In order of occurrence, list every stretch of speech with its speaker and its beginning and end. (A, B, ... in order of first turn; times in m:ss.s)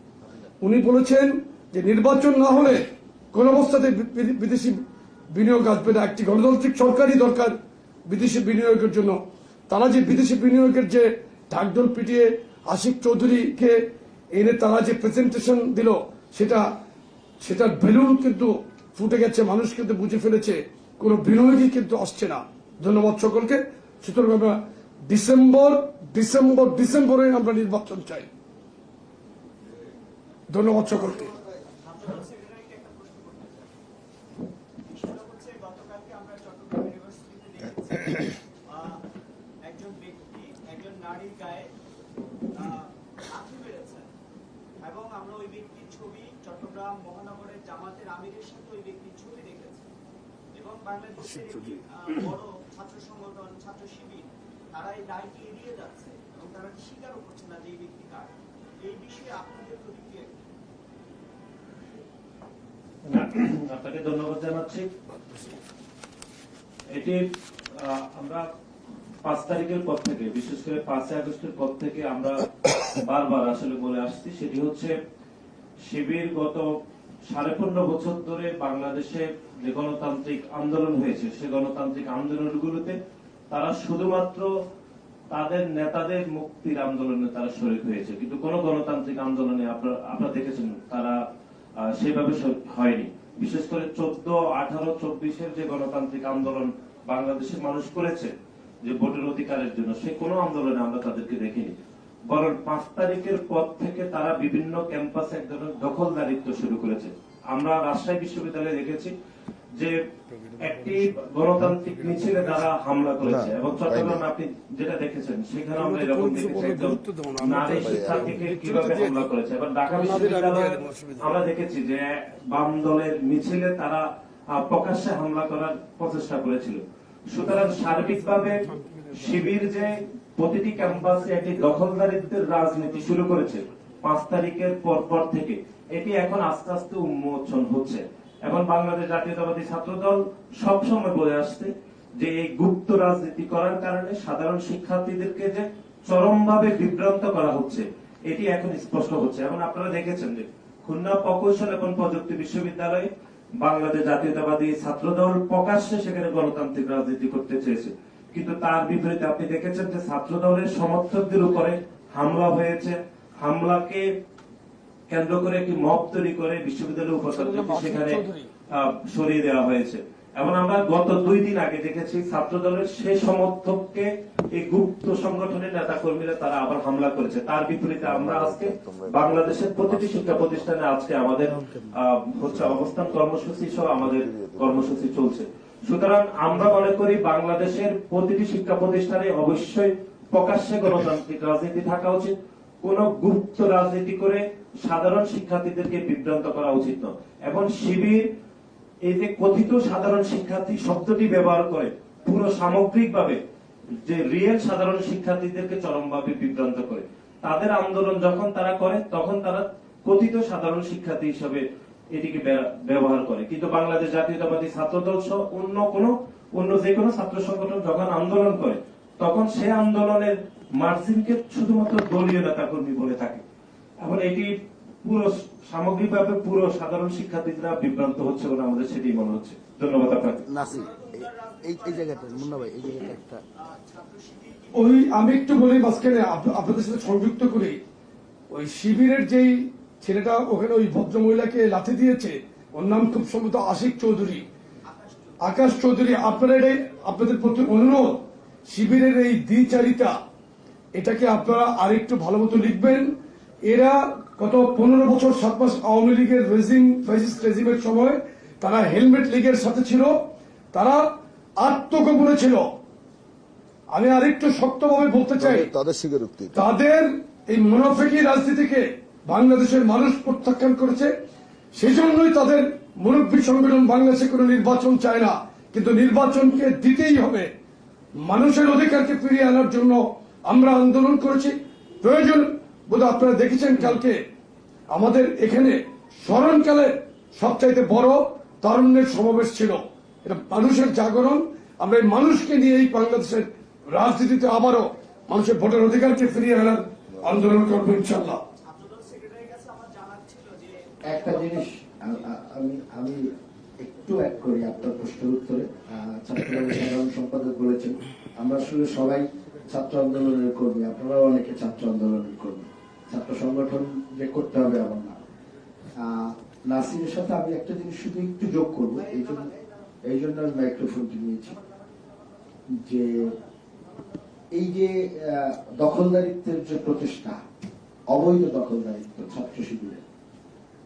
0:00.6-0:07.6 A
0:08.1-0:16.7 A
0:17.4-0:28.3 A
0:30.5-0:31.3 A
0:31.8-0:33.8 B
0:34.8-0:39.0 B
0:39.6-0:41.7 B
0:42.5-0:44.1 B
0:44.8-0:49.9 B
0:50.6-1:00.4 B
1:03.1-1:04.9 C
1:06.9-1:07.2 C
1:07.7-1:08.5 C
1:09.2-1:14.9 C
1:15.9-1:16.7 C
1:17.3-1:23.0 C
1:23.5-1:24.5 C
1:25.3-1:31.2 C
1:31.8-1:41.7 C
1:42.3-1:49.1 C
1:50.6-2:33.1 C
1:53.2-1:54.2 D
1:55.8-1:59.3 A
1:57.8-1:58.3 D
1:59.9-2:01.4 A
2:07.5-2:09.4 A
2:33.6-2:44.0 C
2:45.1-2:48.2 C
2:47.3-2:48.5 A
2:48.7-3:18.2 C
2:58.0-3:00.7 D
3:02.4-3:03.1 D
3:03.9-3:05.2 D
3:19.0-3:23.4 C
3:24.0-3:31.6 C
3:32.1-3:43.4 C
3:44.0-3:44.5 C
3:45.0-3:50.4 C
3:50.5-3:53.4 E
3:50.7-3:52.9 B
3:53.6-3:55.2 B
3:54.7-3:57.8 A
3:58.5-4:04.4 A
4:04.8-4:05.4 B
4:05.4-4:08.2 A
4:08.7-4:10.1 A
4:11.0-4:13.2 A
4:13.7-4:20.2 A
4:20.7-4:21.0 A
4:21.6-4:22.7 A
4:23.9-4:25.7 A
4:25.4-4:26.6 D
4:26.5-4:31.1 A
4:31.7-4:37.5 A
4:38.2-4:44.2 A
4:44.9-4:58.4 A
4:58.6-5:00.8 B
5:01.1-5:03.2 E
5:03.8-5:15.2 E
5:16.0-5:19.5 E
5:19.0-5:19.8 B
5:20.1-5:21.6 E
5:22.8-5:23.3 E
5:24.5-5:27.4 E
5:28.1-5:30.0 E